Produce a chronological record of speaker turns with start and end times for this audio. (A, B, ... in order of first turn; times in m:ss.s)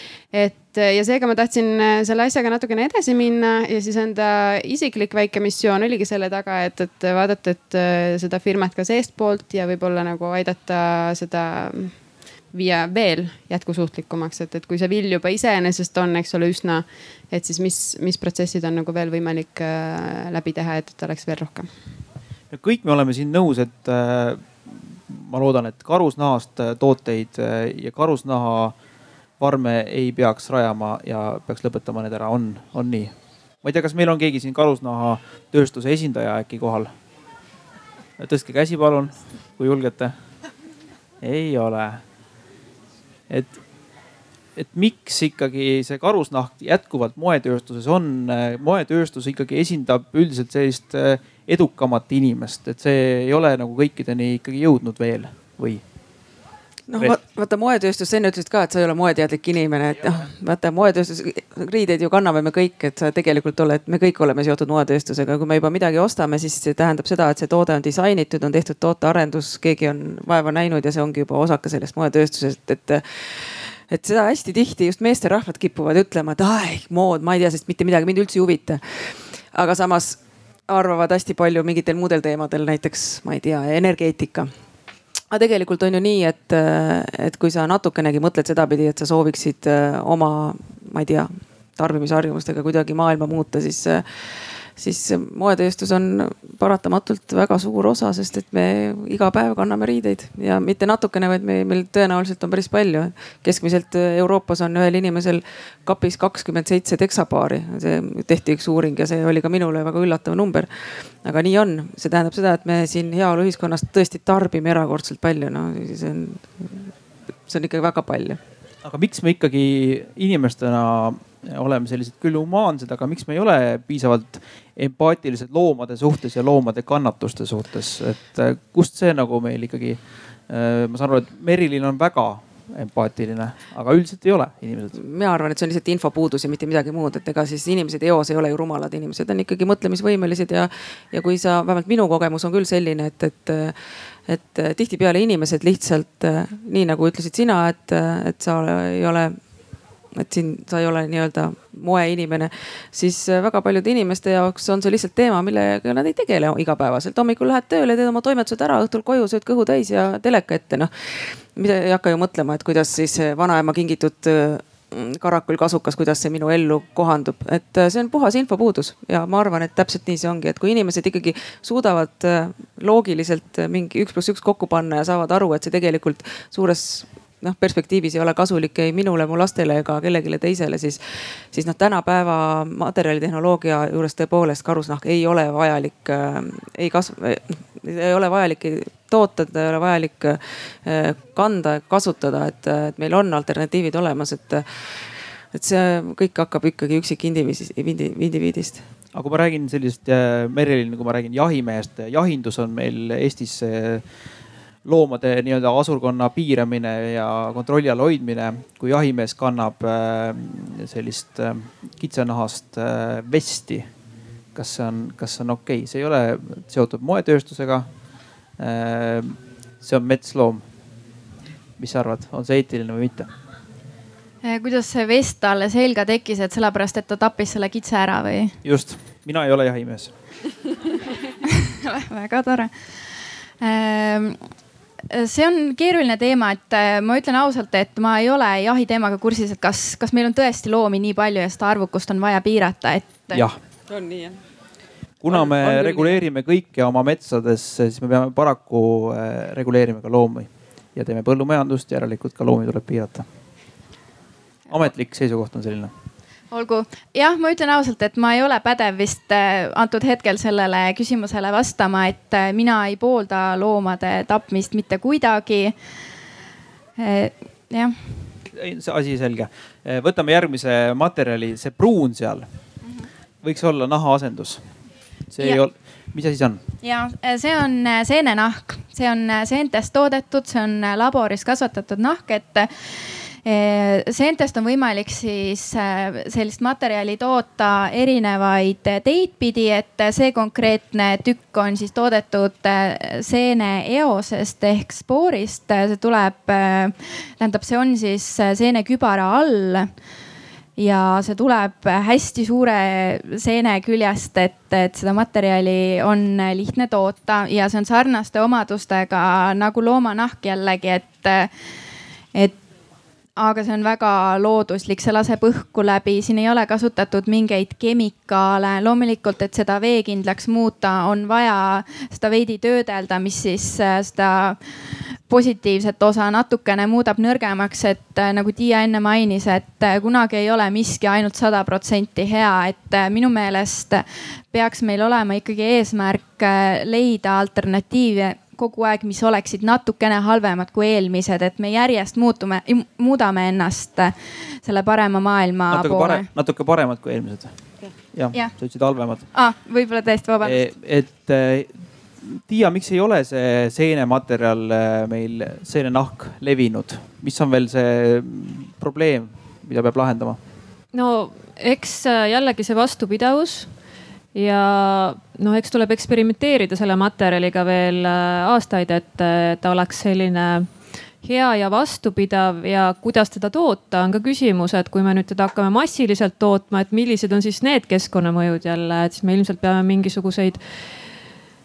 0:00.3-0:11.9 A
0:12.5-0:21.7 A
0:22.5-0:24.4 B
0:25.1-0:28.8 B
0:29.4-0:33.1 B
0:33.6-0:36.9 B
0:38.2-0:40.1 B
0:41.2-0:42.0 B
0:44.6-0:55.8 B
0:56.9-1:24.5 C
1:25.3-1:50.7 C
1:51.2-1:56.9 C
1:57.5-1:58.4 C
1:58.8-2:14.9 B
2:14.9-2:23.8 C
2:24.3-2:29.4 C
2:30.2-3:01.0 C
3:01.5-3:14.6 C
3:15.5-3:18.8 C
3:19.1-3:24.0 B
3:24.8-3:33.9 B
3:34.5-3:37.9 B
3:38.6-3:40.6 B
3:41.8-3:43.3 B
3:44.4-3:48.6 D
3:48.6-3:50.1 B
3:51.7-3:52.7 D
3:53.6-3:54.4 D
3:55.1-4:03.4 D
4:03.3-4:03.6 B
4:03.9-4:04.4 A
4:05.2-4:13.3 B
4:05.3-4:06.2 A
4:14.7-4:15.9 B
4:16.5-4:25.8 D
4:27.0-4:28.0 D
4:28.5-4:32.5 B
4:33.4-4:34.6 B
4:35.3-4:36.6 B
4:36.8-4:42.7 D
4:43.4-4:59.9 D
5:00.8-5:11.5 D
5:13.4-5:24.6 D
5:25.3-5:46.3 D
5:45.7-5:47.5 B
5:48.1-5:49.2 B
5:49.3-5:50.6 D
5:50.4-5:51.7 B
5:52.2-6:00.4 B
6:00.9-6:03.7 E
6:04.4-6:10.7 E
6:11.2-6:21.1 E